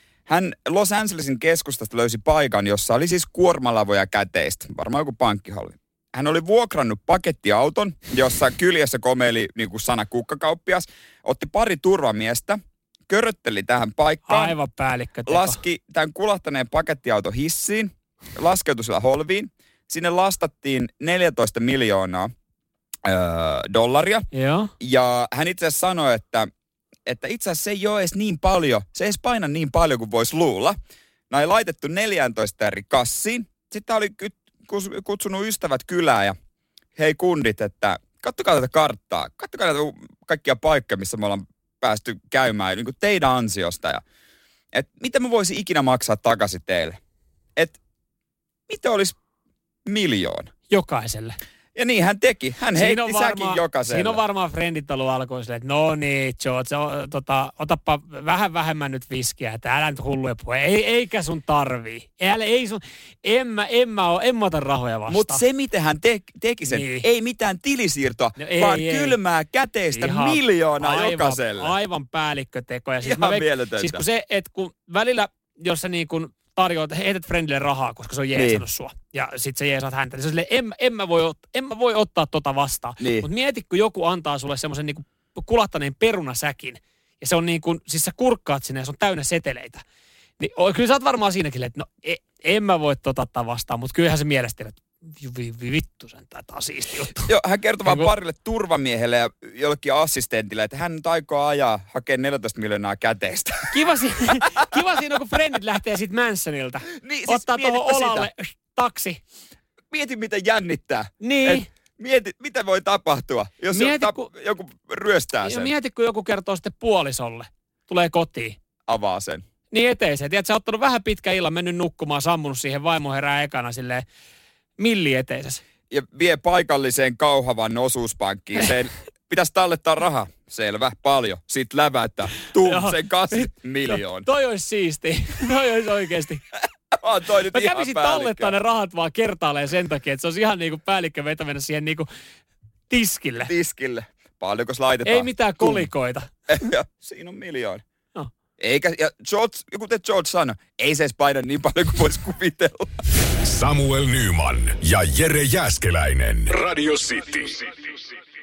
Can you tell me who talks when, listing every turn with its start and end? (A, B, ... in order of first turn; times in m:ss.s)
0:00.3-0:14.6 A
0:14.3-0:15.6 B
0:15.3-0:22.3 A
0:23.0-0:24.3 A
0:24.3-0:24.7 B
0:24.8-0:26.5 A
0:27.1-0:30.8 A
0:31.3-0:36.4 A
0:37.0-0:44.0 A
0:44.7-0:47.0 A
0:48.7-0:49.2 A
0:49.8-0:50.5 A
0:50.7-0:51.4 B
0:51.8-0:54.2 A
0:52.7-1:05.4 B
1:05.1-1:11.7 A
1:06.7-1:07.1 B
1:08.4-1:09.2 B
1:09.9-1:29.8 B
1:13.0-1:14.0 A
1:18.3-1:18.6 A
1:23.0-1:23.3 A
1:30.4-1:37.3 B
1:37.3-1:43.8 A
1:43.7-1:49.2 B
1:46.9-1:48.3 A
1:49.9-1:55.7 A
1:51.2-1:51.7 B
1:53.7-1:54.3 B
1:55.4-1:58.6 B
1:58.9-1:59.4 A
1:59.7-2:04.0 B
2:04.8-2:05.6 B
2:05.9-2:14.3 A
2:12.6-2:16.4 B
2:16.9-2:18.5 A
2:17.5-2:22.1 B
2:22.9-2:23.5 B
2:23.5-2:25.9 A
2:25.0-2:26.3 B
2:26.5-2:27.8 A
2:28.6-2:32.9 A
2:33.4-2:37.7 C